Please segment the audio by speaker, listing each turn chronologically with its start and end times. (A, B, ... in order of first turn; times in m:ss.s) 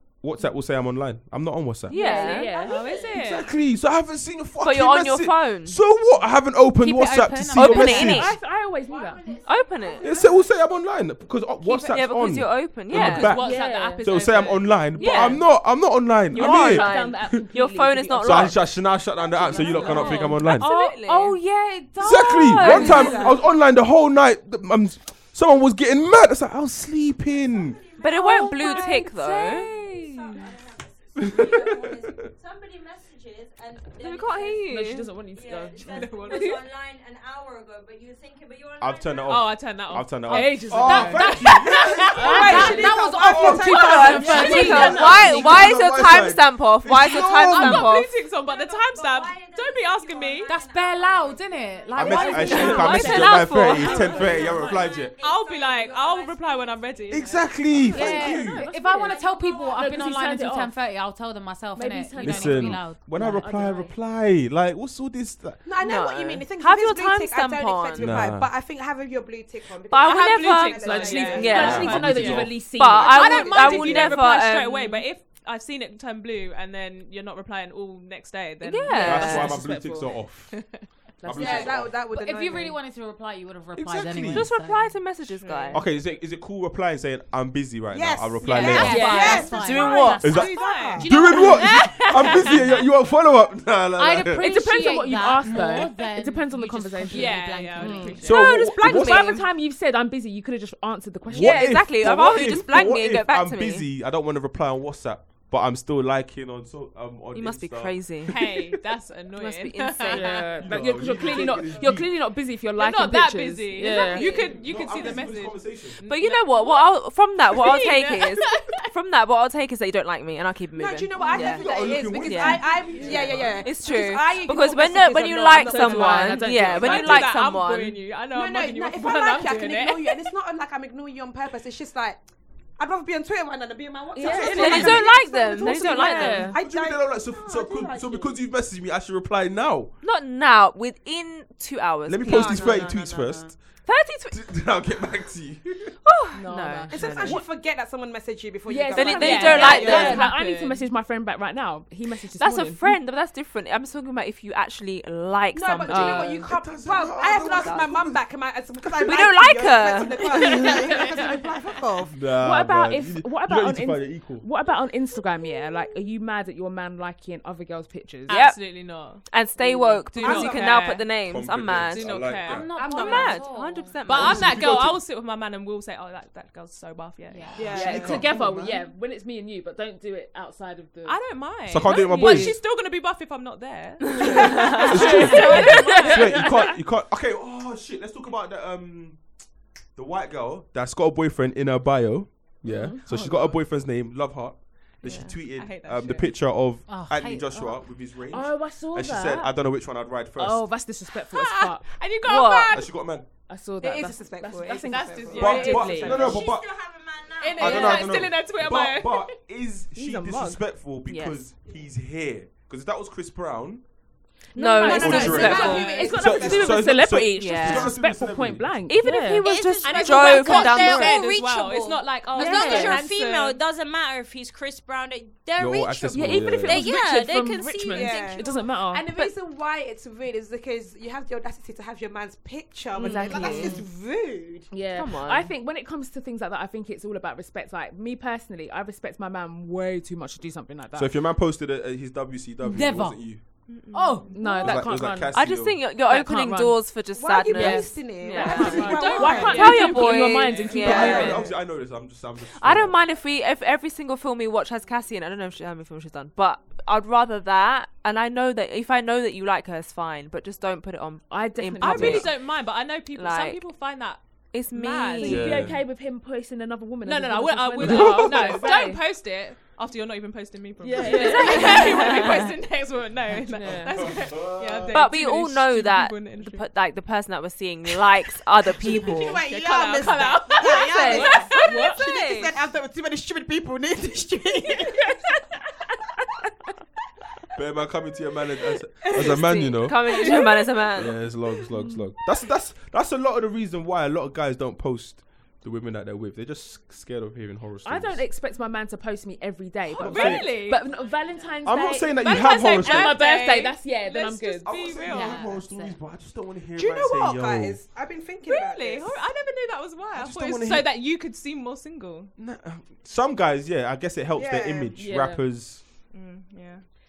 0:00.2-0:02.0 A
0:01.9-0:03.1 B
0:01.9-0:02.9 C
0:02.1-0:03.3 D
0:02.3-0:03.5 E
0:03.1-0:08.3 A
0:04.6-0:05.8 B
0:06.8-0:08.3 F
0:07.5-0:08.4 B
0:07.8-0:09.4 C
0:08.8-0:10.5 D
0:09.4-0:10.1 B
0:10.0-0:17.4 A
0:11.6-0:13.5 B
0:13.0-0:15.4 E
0:13.4-0:14.1 C
0:14.9-0:15.4 B
0:15.0-0:15.4 C
0:16.3-0:18.6 B
0:16.3-0:18.7 C
0:16.5-0:16.8 E
0:18.2-0:20.7 A
0:19.1-0:20.3 D
0:19.3-0:21.4 C
0:20.0-0:21.4 B
0:21.9-0:22.6 F
0:22.0-0:27.8 A
0:22.0-0:23.3 B
0:22.6-0:23.4 G
0:27.4-0:39.3 D
0:28.0-0:30.5 B
0:31.2-0:32.3 A
0:33.9-0:35.1 B
0:34.7-0:36.6 C
0:35.8-0:36.6 E
0:38.8-0:47.9 A
0:39.2-0:42.8 E
0:40.2-0:41.5 C
0:42.1-0:45.7 C
0:42.2-0:45.2 G
0:42.4-0:45.2 F
0:43.6-0:48.1 B
0:47.0-0:50.5 E
0:48.4-0:53.1 D
0:50.4-0:53.5 F
0:51.9-0:55.2 A
0:52.5-0:54.2 B
0:52.9-0:53.4 C
0:53.8-0:58.5 D
0:55.1-0:57.7 E
0:57.1-0:58.6 A
0:57.9-1:03.2 F
0:57.9-1:00.7 C
0:59.0-0:59.8 D
1:01.7-1:03.9 C
1:02.2-1:05.6 A
1:05.6-1:11.8 G
1:05.8-1:08.3 B
1:08.0-1:08.5 A
1:09.9-1:15.0 B
1:10.0-1:19.3 E
1:10.8-1:14.2 C
1:11.5-1:12.5 A
1:13.0-1:13.9 F
1:18.6-1:19.6 B
1:18.9-1:20.1 C
1:19.0-1:20.6 A
1:20.5-1:20.8 E
1:21.2-1:21.8 C
1:21.2-1:21.9 A
1:21.3-1:22.8 G
1:22.0-1:25.1 F
1:23.7-1:24.5 A
1:24.3-1:25.8 B
1:25.4-1:25.8 C
1:25.7-1:29.0 A
1:27.9-1:31.1 G
1:28.4-1:30.4 F
1:28.6-1:32.6 E
1:28.7-1:29.5 C
1:28.8-1:30.4 B
1:30.2-1:34.5 A
1:34.0-1:38.3 F
1:34.4-1:41.9 C
1:37.1-1:38.4 E
1:38.2-1:39.4 A
1:38.2-1:39.4 B
1:41.3-1:48.3 A
1:41.3-1:43.8 B
1:47.3-1:48.5 B
1:48.2-1:50.5 E
1:49.3-1:50.5 B
1:50.1-1:54.3 C
1:50.6-1:52.1 A
1:52.8-1:56.9 E
1:54.2-1:56.0 A
1:56.0-2:02.7 B
1:57.5-1:58.7 E
2:00.7-2:06.4 G
2:01.5-2:03.6 A
2:02.9-2:03.4 C
2:03.6-2:08.0 B
2:05.5-2:07.2 C
2:05.8-2:10.2 E
2:08.3-2:12.2 G
2:12.8-2:18.4 G
2:14.1-2:16.6 C
2:14.2-2:15.0 A
2:14.2-2:16.5 B
2:16.5-2:19.9 A
2:20.0-2:23.0 B
2:22.0-2:23.6 A
2:22.3-2:23.0 G
2:23.8-2:24.4 B
2:24.3-2:26.0 A
2:26.0-2:27.4 B
2:26.3-2:27.4 C
2:26.9-2:30.3 G
2:28.7-2:32.9 C
2:28.9-2:30.8 B
2:29.8-2:30.1 E
2:32.4-2:36.4 B
2:35.5-2:42.1 G
2:35.9-2:36.5 C
2:36.4-2:38.2 A
2:39.0-2:41.0 B
2:40.9-2:41.2 C
2:42.1-2:44.4 A
2:42.4-2:48.4 C
2:48.3-2:49.2 E
2:48.3-2:48.6 B
2:49.3-2:52.1 B
2:49.6-2:50.0 C
2:50.1-2:51.1 E
2:50.2-2:50.8 G
2:51.2-2:52.7 A
2:51.9-2:53.4 E
2:52.4-2:54.0 F
2:52.7-2:53.4 G
2:52.8-2:54.6 B
2:54.0-2:57.6 E
2:54.1-2:55.0 A
2:57.3-2:58.0 F
2:57.6-2:58.2 G
2:57.6-2:58.8 A
2:57.7-3:01.2 C
3:01.0-3:06.6 E
3:01.7-3:02.6 A
3:01.9-3:02.5 C
3:04.2-3:04.8 B
3:04.7-3:09.2 A
3:04.9-3:06.4 C
3:05.3-3:06.0 B
3:10.0-3:20.6 A
3:12.6-3:13.5 C
3:15.0-3:16.3 E
3:16.9-3:17.8 F
3:18.3-3:19.5 C
3:20.4-3:21.8 C
3:21.2-3:22.9 E
3:22.2-3:22.8 B
3:22.7-3:23.2 A
3:23.5-3:26.4 C
3:23.8-3:26.5 G
3:24.8-3:26.2 E
3:25.3-3:26.7 A
3:26.1-3:27.6 D
3:27.4-3:29.3 E
3:27.6-3:28.0 C
3:27.6-3:33.8 A
3:29.9-3:30.6 C
3:31.0-3:31.4 B
3:34.5-3:39.4 C
3:34.5-3:36.1 B
3:34.8-3:37.0 G
3:34.9-3:35.9 E
3:34.9-3:36.0 D
3:35.0-3:38.8 A
3:37.4-3:37.9 B
3:38.9-3:41.3 B
3:39.4-3:48.6 D
3:39.8-3:43.6 E
3:42.4-3:43.0 C
3:42.4-3:43.0 B
3:45.6-3:46.9 A
3:46.1-3:49.1 C
3:47.9-3:54.7 G
3:52.9-3:53.8 C
3:53.4-3:53.7 B
3:54.7-4:01.1 C
3:54.9-3:55.5 B
4:00.9-4:03.4 A
4:02.6-4:03.4 F
4:03.7-4:04.2 B
4:03.9-4:04.6 E
4:03.9-4:05.4 C
4:04.6-4:05.8 A
4:05.3-4:11.5 B
4:06.0-4:06.9 C
4:07.1-4:09.8 G
4:07.5-4:11.4 C
4:08.4-4:11.4 E
4:10.8-4:13.0 A
4:12.5-4:22.5 B
4:21.3-4:22.3 C
4:21.8-4:25.4 E
4:21.9-4:22.3 A
4:23.1-4:23.6 B
4:24.5-4:25.6 B
4:25.2-4:25.8 A
4:25.2-4:29.0 C
4:27.0-4:36.6 E
4:27.8-4:28.2 A
4:30.8-4:32.2 C
4:31.4-4:32.0 B
4:31.5-4:31.9 G
4:33.4-4:34.2 C
4:34.0-4:35.0 A
4:34.9-4:39.4 B
4:38.8-4:45.1 G
4:39.3-4:41.9 E
4:40.6-4:42.5 B
4:40.9-4:42.0 C
4:47.5-4:50.0 A
4:49.1-4:51.2 B
4:50.2-4:50.6 G
4:51.0-4:58.2 A
4:57.8-5:04.7 C
5:00.0-5:00.5 A
5:00.0-5:01.0 E
5:01.6-5:03.2 A
5:02.2-5:05.4 E
5:04.6-5:07.8 A
5:05.1-5:06.0 F
5:06.7-5:09.2 G
5:08.4-5:12.3 E
5:10.1-5:10.9 A
5:12.4-5:15.8 A
5:14.3-5:14.9 G
5:15.0-5:15.4 C
5:16.1-5:16.8 E